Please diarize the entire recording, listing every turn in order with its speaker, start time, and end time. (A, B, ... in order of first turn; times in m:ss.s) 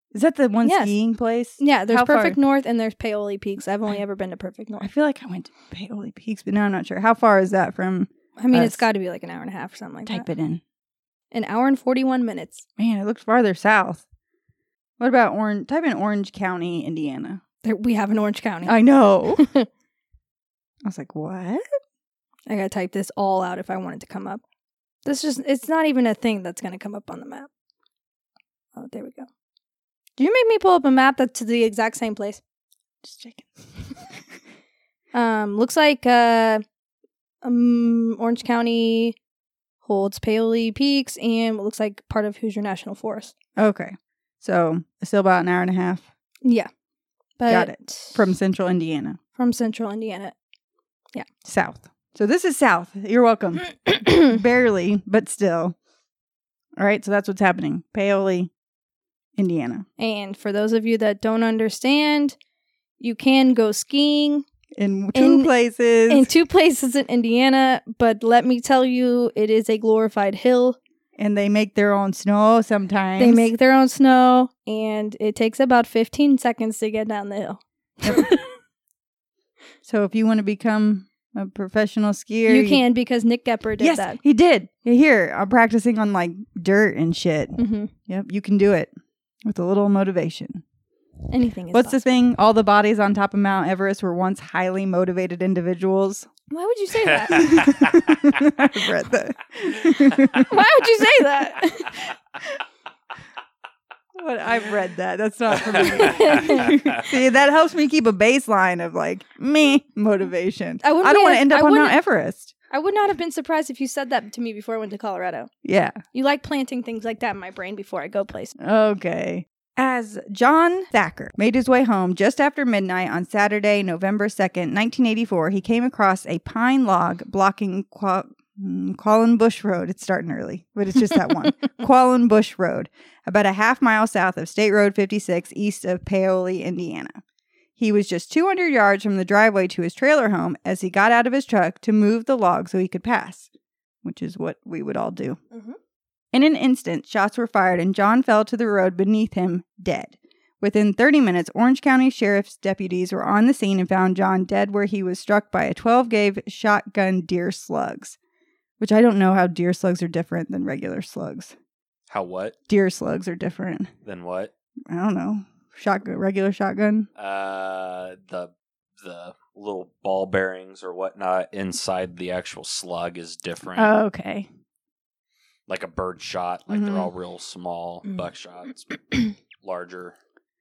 0:00.1-0:02.4 A
0:00.6-0:01.0 B
0:01.6-0:04.9 B
0:04.8-0:08.8 A
0:08.4-0:10.3 B
0:10.1-0:10.6 A
0:11.3-0:12.6 B
0:12.8-0:14.0 A
0:15.0-0:17.4 A
0:17.6-0:18.8 B
0:18.6-0:19.4 A
0:19.4-0:19.7 B
0:20.8-0:21.6 A
0:22.5-0:24.4 B
0:25.0-0:27.5 B
0:28.8-0:29.3 B
0:30.2-0:32.4 B
0:33.0-0:33.5 A
0:35.1-0:36.6 B
0:37.4-0:39.2 B
0:39.8-0:43.3 B
0:43.6-0:46.1 A
0:46.4-0:46.7 B
0:47.4-0:48.2 B
0:47.5-0:49.2 A
0:49.4-0:50.4 B
0:51.4-0:55.8 A
0:53.8-0:54.4 B
0:56.8-0:58.5 A
0:59.4-0:59.9 A
1:00.0-1:02.4 B
1:03.0-1:04.4 B
1:04.8-1:06.3 A
1:05.2-1:05.5 B
1:06.1-1:10.8 B
1:11.2-1:13.5 A
1:13.2-1:18.4 B
1:18.0-1:18.3 A
1:19.8-1:22.8 A
1:22.5-1:24.2 B
1:23.8-1:28.9 A
1:27.6-1:27.9 B
1:29.4-1:30.6 A
1:31.3-1:32.0 B
1:31.7-1:36.3 A
1:36.5-1:37.7 B
1:37.3-1:40.5 A
1:37.3-1:38.1 C
1:40.4-1:42.0 B
1:44.2-1:52.5 A
1:45.5-1:46.9 C
1:45.9-1:46.7 B
1:50.8-1:52.0 B
1:52.7-1:55.5 B
1:55.6-1:56.0 A
1:56.1-1:58.5 B
1:58.6-2:17.2 A
2:17.8-2:23.5 A
2:24.0-2:25.4 A
2:25.5-2:25.8 B
2:26.3-2:38.2 A
2:38.8-2:41.6 A
2:42.1-2:42.6 C
2:42.7-2:43.9 A
2:44.0-2:44.5 C
2:44.9-2:47.1 A
2:47.2-2:53.9 C
2:53.8-2:54.5 A
2:55.7-3:00.2 C
2:56.7-2:57.1 A